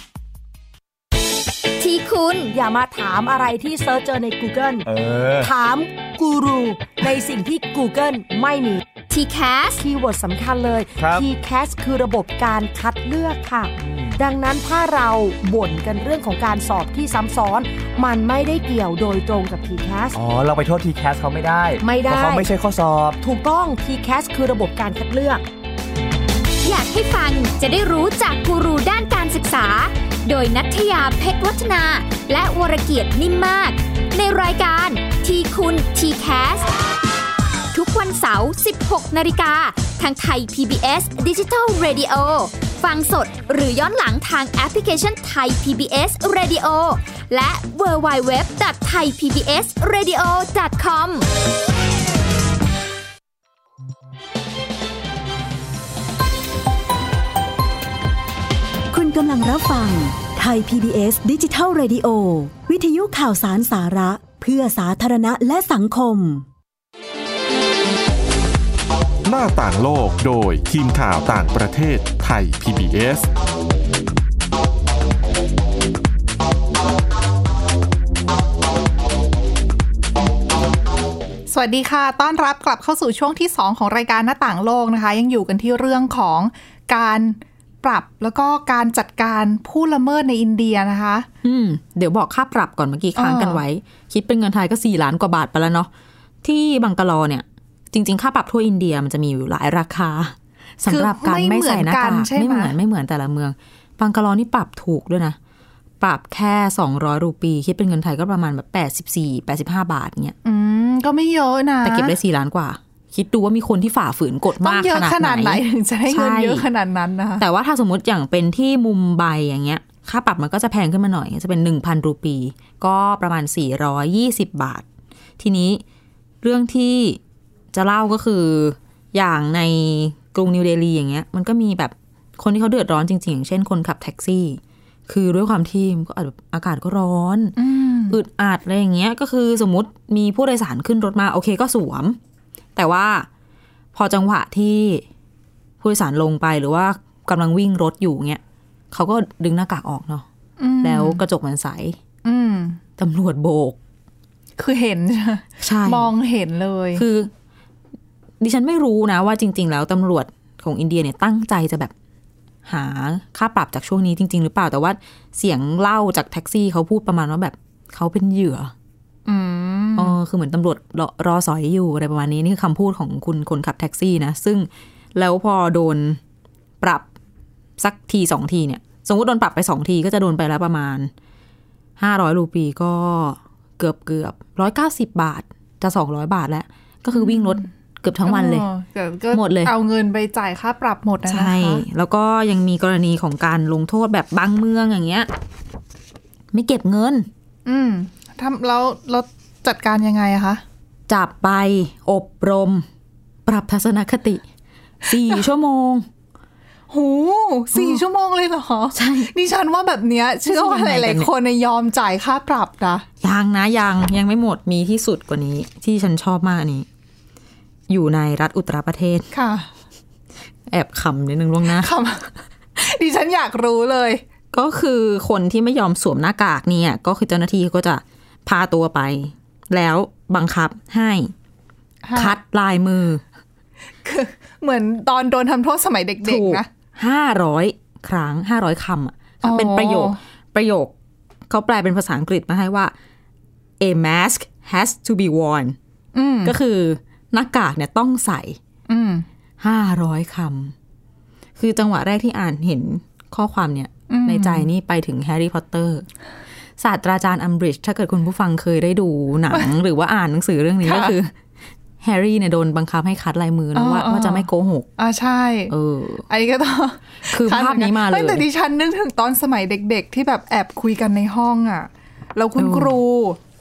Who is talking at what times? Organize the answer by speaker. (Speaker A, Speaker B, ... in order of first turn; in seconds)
Speaker A: 1.8-2.5, 9.1-9.8, 26.6-36.7, 37.7-51.3
Speaker B: 2.5-4.9, 5.4-8.8, 9.8-20.2, 21.8-22.5, 23.2-25.4
Speaker C: 4.9-5.5, 11.0-11.3, 13.9-14.2, 20.1-23.2
Speaker D: 58.9-66.5
Speaker E: 69.2-73.3
Speaker F: 81.5-91.3, 93.2-93.6, 100.9-102.7, 110.4-112.2, 114.6-117.4, 137.6-138.2, 150.6-151.2, 152.2-152.8, 154.6-157.0, 169.3-170.2, 187.1-187.7, 188.2-191.8, 197.7-200.6, 206.9-213.1, 219.3-219.7, 221.7-224.2, 232.1-232.4, 234.0-236.7, 239.4-240.2, 246.2-246.5, 248.9-249.2, 254.1-254.7, 260.8-261.1, 263.7-264.5, 265.0-265.7, 266.3-273.4
Speaker G: 91.4-95.9, 96.4-105.4, 106.0-110.4, 111.8-116.7, 117.4-124.8, 125.4-125.8, 126.4-127.2, 127.7-137.6, 138.1-142.2, 142.8-143.3, 143.9-145.0, 145.8-150.3, 150.8-152.0, 153.0-153.8, 155.6-156.1, 156.9-157.3, 158.4-161.9, 162.7-168.7, 170.0-176.2, 176.8-177.1, 177.8-181.1, 182.0-188.7, 189.3-189.7, 191.3-195.3, 196.5-197.3, 201.1-202.9, 203.5-204.4, 205.1-206.1, 207.7-208.0, 208.9-209.3, 210.5-211.3, 213.2-216.9, 217.9-219.3, 220.7-221.9, 224.5-231.3, 232.2-233.2, 236.2-240.9, 241.5-242.9, 243.8-245.8, 246.4-248.6, 249.6-250.7, 251.6-256.1, 256.8-261.3, 262.0-264.9, 265.7-266.2, 267.3-268.5, 272.6-273.0